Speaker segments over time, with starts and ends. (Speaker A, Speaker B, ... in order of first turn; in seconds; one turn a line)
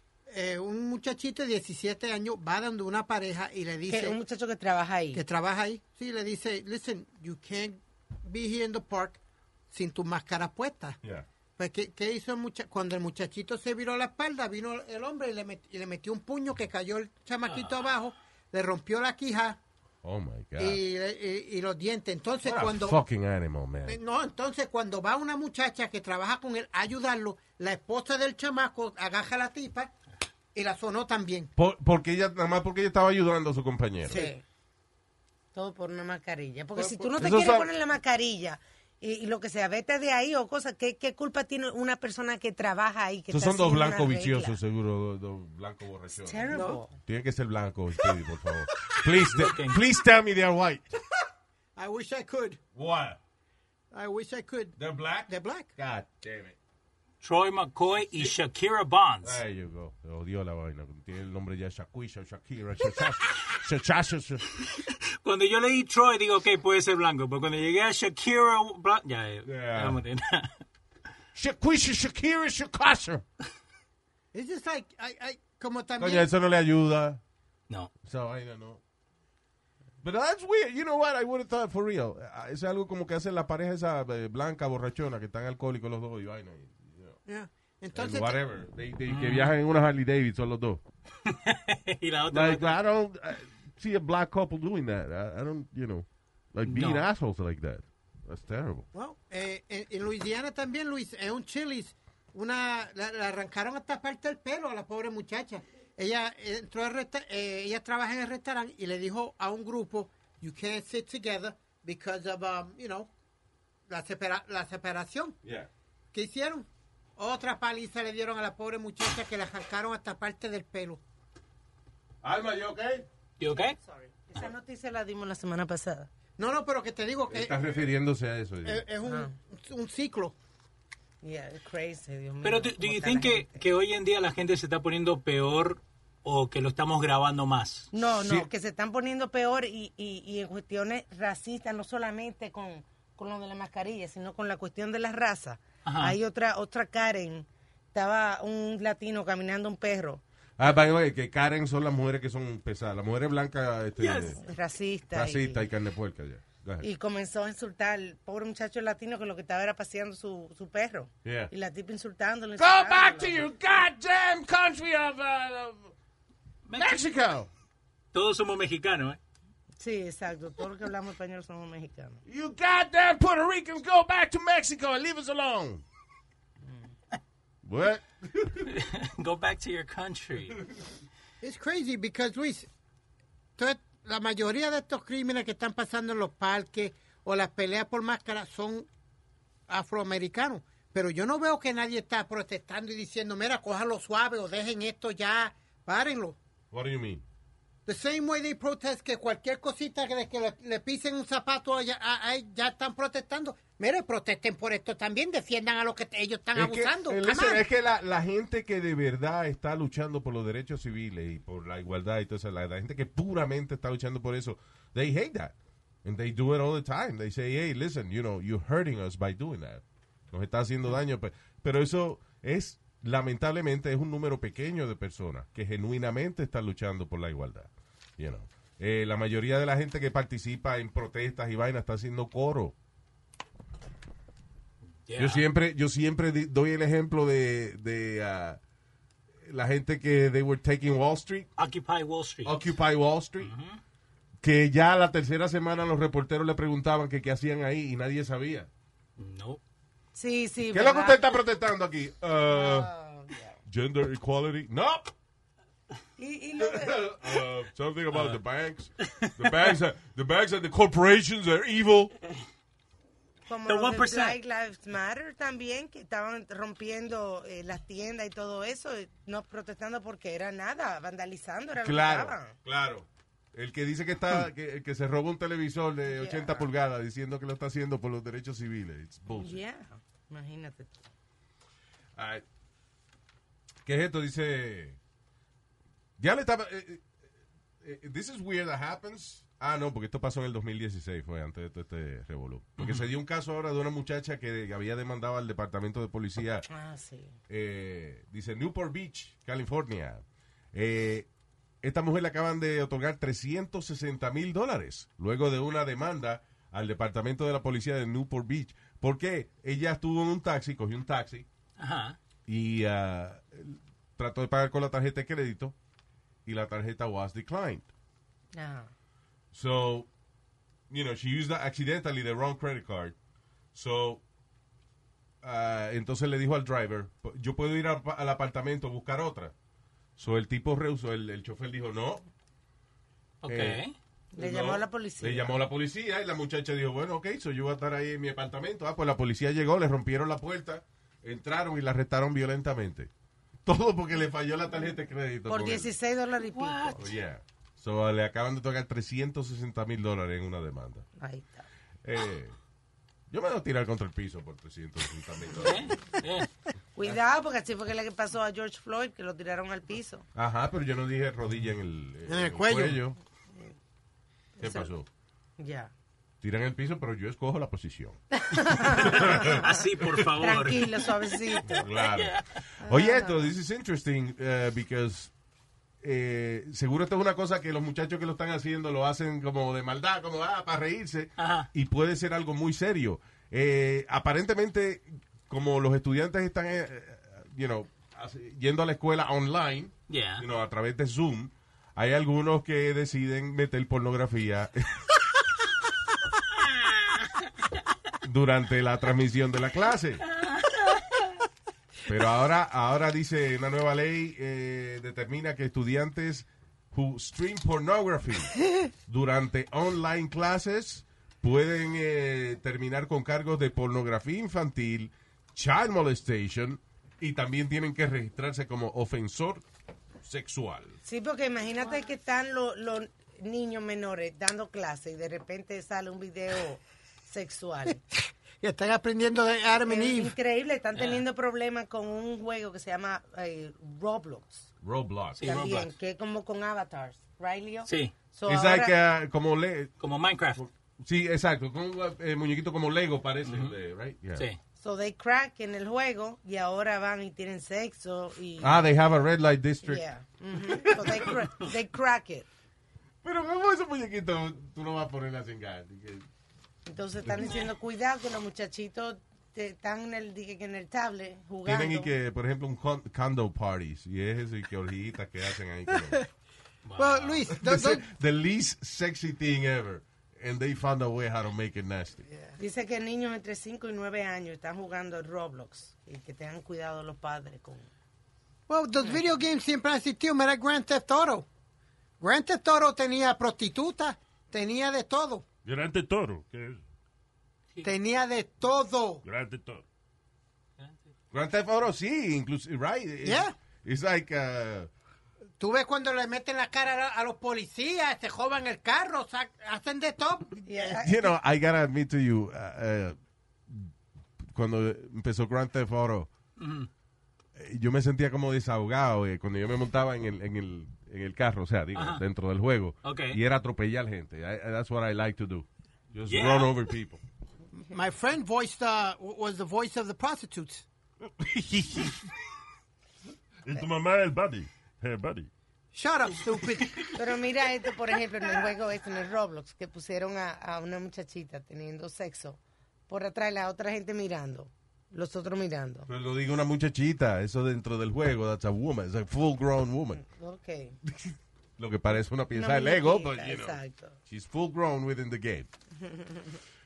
Speaker A: 0.3-4.2
Speaker B: 3.9-5.2
Speaker A: 5.1-11.0
Speaker A: 11.6-19.6
Speaker C: 20.0-20.8
Speaker A: 20.6-23.0
Speaker C: 22.4-24.0
Speaker A: 23.8-29.9
Speaker A: 30.5-31.5
Speaker C: 31.6-34.2
Speaker A: 34.0-34.3
Speaker B: 34.0-34.4
Speaker B: 35.5-44.6
Speaker A: 36.8-37.3
Speaker C: 37.2-37.7
Speaker C: 43.3-50.9
Speaker B: 46.1-47.0
Speaker A: 46.5-46.8
Speaker D: 49.4-49.8
Speaker A: 51.8-52.6
Speaker C: 52.7-53.2
Speaker A: 53.9-54.8
Speaker C: 54.8-56.5
Speaker A: 55.3-55.7
Speaker D: 57.2-59.4
Speaker C: 59.2-64.4
Speaker D: 64.6-70.6
Speaker C: 69.5-70.0
Speaker C: 71.3-73.2
Speaker A: 74.3-76.3
Speaker C: 76.0-77.2
Speaker C: 78.0-78.8
Speaker C: 80.0-87.2
Speaker A: 87.2-88.3
Speaker C: 87.9-90.8
Speaker D: 89.1-89.5
Speaker D: 91.2-92.7
Speaker C: 92.3-98.9
Speaker D: 96.7-97.0
Speaker A: 98.9-113.1
Speaker A: 113.9-115.4
Speaker C: 115.4-115.7
Speaker A: 116.1-121.0
Speaker C: 122.2-123.1
Speaker D: 123.4-123.8
Speaker B: 123.4-126.1
Speaker A: 126.4-127.6
Speaker C: 127.3-128.8
Speaker A: 128.6-130.3
Speaker B: 129.0-129.3
Speaker B: 131.2-133.6
Speaker D: 132.4-137.9
Speaker B: 137.9-150.2
Speaker C: 138.2-138.5
Speaker D: 145.8-146.2
Speaker C: 150.6-154.4
Speaker D: 154.0-154.3
Speaker B: 154.4-155.6
Speaker C: 155.1-156.9
Speaker B: 156.8-163.4
Speaker C: 161.2-161.5
Speaker C: 162.6-165.9
Speaker D: 166.7-167.0
Speaker C: 166.7-167.5
Speaker D: 168.1-169.2
Speaker B: 169.8-172.2
Speaker C: 172.2-175.8
Speaker C: 177.6-178.7
Speaker D: 178.7-180.6
Speaker A: 181.4-182.7
Speaker A: 183.6-188.9
Speaker A: 189.7-196.4
Speaker C: 196.7-197.2
Speaker A: 197.8-207.6
Speaker C: 206.5-232.7
Speaker D: 235.1-235.4
Speaker C: 235.2-238.6
Speaker C: 239.4-241.5
Speaker D: 241.6-242.6
Speaker C: 242.4-243.5
Speaker D: 243.4-243.8
Speaker C: 244.4-248.7
Speaker D: 249.2-249.6
Speaker B: 250.1-251.2
Speaker C: 250.7-252.9
Speaker B: 252.5-253.6
Speaker C: 253.7-255.1
Speaker B: 256.2-257.1
Speaker C: 256.6-262.1
Speaker B: 263.5-272.6
Speaker D: 263.6-264.4
Speaker C: 271.8-279.6
Speaker B: 276.1-276.7
Speaker B: 279.3-281.1
Speaker C: 282.1-282.4
Speaker C: 283.8-285.0
Speaker C: 286.2-287.0
Speaker C: 287.8-296.7
Speaker D: 292.8-293.1
Speaker B: 296.7-297.4
Speaker C: 297.5-301.3
Speaker C: 301.8-311.4
Speaker D: 311.8-312.2
Speaker C: 312.5-315.7
Speaker C: 316.4-317.9
Speaker B: 318.5-318.9
Speaker C: 319.5-320.1
Speaker C: 320.9-323.1
Speaker C: 323.7-324.2
Speaker C: 325.4-329.5
Speaker C: 330.2-332.2
Speaker D: 333.4-333.9
Speaker C: 333.4-333.8
Speaker B: 334.3-335.6
Speaker C: 334.4-343.1
Speaker C: 343.6-345.9
Speaker B: 345.5-347.1
Speaker D: 346.4-347.0
Speaker C: 346.9-351.1
Speaker B: 351.2-351.6
Speaker C: 352.0-352.6
Speaker C: 353.3-355.9
Speaker D: 355.6-356.5
Speaker B: 356.9-360.2
Speaker C: 360.3-363.2
Speaker A: 362.3-363.0
Speaker B: 364.6-364.9
Speaker C: 364.6-365.1
Speaker B: 365.6-365.9
Speaker C: 366.4-370.4
Speaker B: 368.3-371.9
Speaker D: 369.1-372.5
Speaker C: 371.7-375.3
Speaker B: 372.8-373.5
Speaker C: 376.0-395.0
Speaker D: 381.4-381.7
Speaker D: 390.1-390.4
Speaker C: 398.2-400.2
Speaker C: 402.1-408.6
Speaker C: 409.1-419.6
Speaker C: 420.2-421.0
Speaker B: 421.0-428.0
Speaker A: 428.1-430.3
Speaker B: 429.8-434.7
Speaker D: 430.9-431.2
Speaker C: 434.8-435.5
Speaker D: 435.4-435.9
Speaker B: 435.4-439.0
Speaker D: 437.9-438.1
Speaker C: 438.5-439.9
Speaker D: 440.0-440.6
Speaker C: 440.6-444.4
Speaker D: 443.4-443.7
Speaker B: 444.8-448.8
Speaker C: 448.6-450.0
Speaker B: 449.8-452.4
Speaker C: 450.6-451.4
Speaker C: 453.2-456.3
Speaker B: 456.9-462.1
Speaker C: 461.6-466.2
Speaker D: 466.9-467.5
Speaker A: 467.0-468.0
Speaker C: 467.5-472.3
Speaker A: 472.3-472.6
Speaker B: 472.6-477.9
Speaker A: 478.7-481.4
Speaker A: 482.2-485.4
Speaker E: 485.6-486.8
Speaker A: 487.8-489.2
Speaker E: 489.2-489.8
Speaker C: 491.3-494.9
Speaker A: 493.2-493.5
Speaker A: 495.6-501.0
Speaker B: 500.6-501.3
Speaker C: 501.0-503.9
Speaker C: 504.4-506.3
Speaker D: 506.6-506.9
Speaker C: 507.6-517.2
Speaker D: 511.9-512.2
Speaker D: 513.0-513.4
Speaker D: 516.3-516.8
Speaker A: 517.8-520.8
Speaker E: 521.4-522.2
Speaker E: 523.6-525.5
Speaker A: 525.9-527.1
Speaker B: 527.1-536.1
Speaker C: 536.1-540.2
Speaker B: 540.2-541.0
Speaker C: 541.0-545.7
Speaker B: 542.5-544.2
Speaker B: 546.0-546.6